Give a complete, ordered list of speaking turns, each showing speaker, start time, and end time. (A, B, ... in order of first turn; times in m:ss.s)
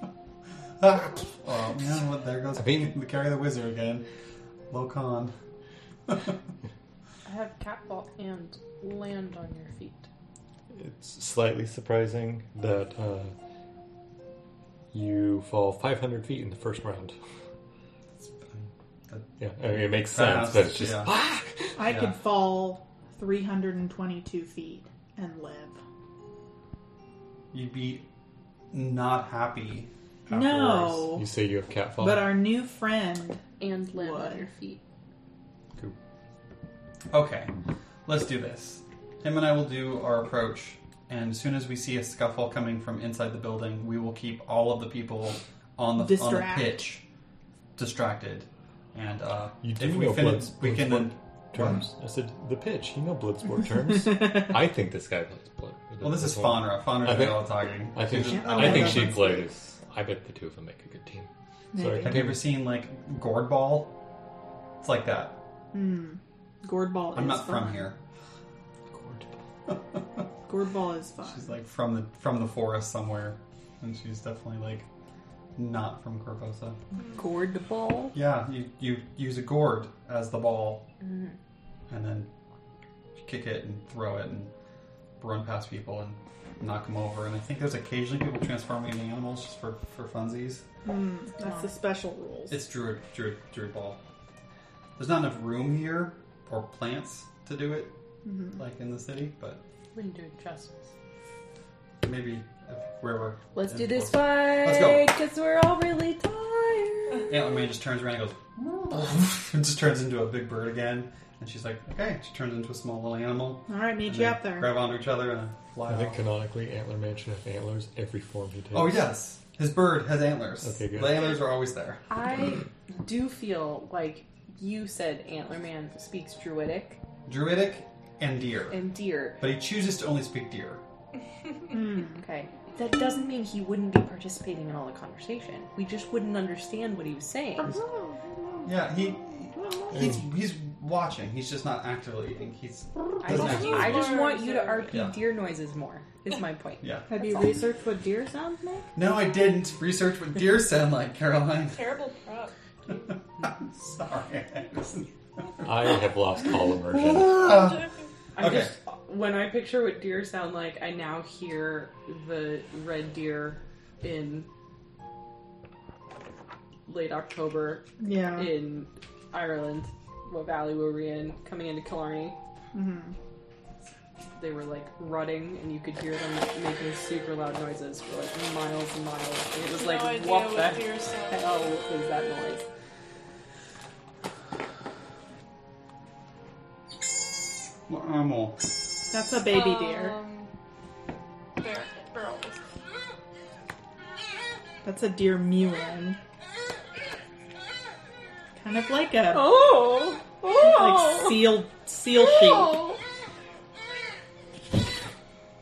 0:00.8-0:04.0 A
0:02.6-0:02.9 B
0:04.7-0:05.3 A
0:06.1-0:06.4 A
0:07.2-0:10.1 C
0:10.7-0:13.3 B
0:14.9-0:17.2 B
0:18.2-0:19.3 A
0:19.4-0:21.8 B
0:20.1-0:21.1 A
0:21.8-0:25.8 D
0:21.8-0:22.1 A
0:27.5-0:28.1 A
0:28.7-0:29.9 A
0:30.3-0:31.3 D
0:30.3-0:32.4 B
0:32.0-0:34.5 D
0:33.6-0:34.8 C
0:37.1-0:37.5 A
0:38.1-0:47.0 A
0:45.9-0:46.9 D
0:47.8-0:51.9 A
0:49.6-1:02.5 B
0:56.0-0:59.4 A
0:58.2-0:59.4 D
1:01.7-1:02.2 D
1:02.0-1:03.9 A
1:04.8-1:05.4 A
1:05.7-1:07.9 D
1:07.1-1:08.0 A
1:08.9-1:09.4 B
1:09.7-1:10.2 A
1:10.5-1:11.5 D
1:11.3-1:14.9 A
1:15.6-1:16.8 A
1:17.1-1:18.2 C
1:18.1-1:20.9 A
1:21.0-1:21.4 C
1:21.9-1:22.3 A
1:23.2-1:24.5 A
1:25.2-1:30.6 A
1:30.8-1:32.6 D
1:32.5-1:34.0 A
1:35.0-1:37.9 A
1:38.2-1:38.6 D
1:38.5-1:39.6 A
1:39.9-1:40.9 C
1:42.0-1:45.1 A
1:43.5-1:47.3 C
1:47.3-1:56.2 A
1:53.7-1:54.7 D
1:55.9-1:59.1 B
1:58.7-2:02.0 A
2:00.6-2:01.4 B
2:02.1-2:07.0 C
2:07.2-2:08.8 A
2:08.7-2:09.4 C
2:09.4-2:10.8 A
2:11.7-2:12.2 D
2:11.7-2:17.8 C
2:17.8-2:18.7 D
2:18.6-2:24.2 A
2:19.6-2:19.9 D
2:19.9-2:20.2 B
2:23.2-2:27.6 C
2:23.3-2:24.9 E
2:24.9-2:25.2 A
2:26.8-2:27.1 A
2:27.1-2:28.9 D
2:28.9-2:31.9 A
2:31.7-2:33.1 E
2:33.4-2:35.7 A
2:35.6-2:37.5 B
2:36.9-2:37.9 A
2:37.4-2:38.1 E
2:38.4-2:44.5 C
2:38.4-2:38.7 A
2:46.9-2:52.4 C
2:48.0-2:48.5 D
2:52.7-2:53.1 D
2:54.4-3:02.7 C
2:59.7-3:01.7 E
3:07.9-3:08.6 A
3:09.1-3:10.2 D
3:09.4-3:10.5 E
3:11.6-3:12.7 E
3:14.8-3:16.2 D
3:18.6-3:19.6 D
3:19.3-3:21.6 C
3:20.4-3:22.8 D
3:22.1-3:23.0 C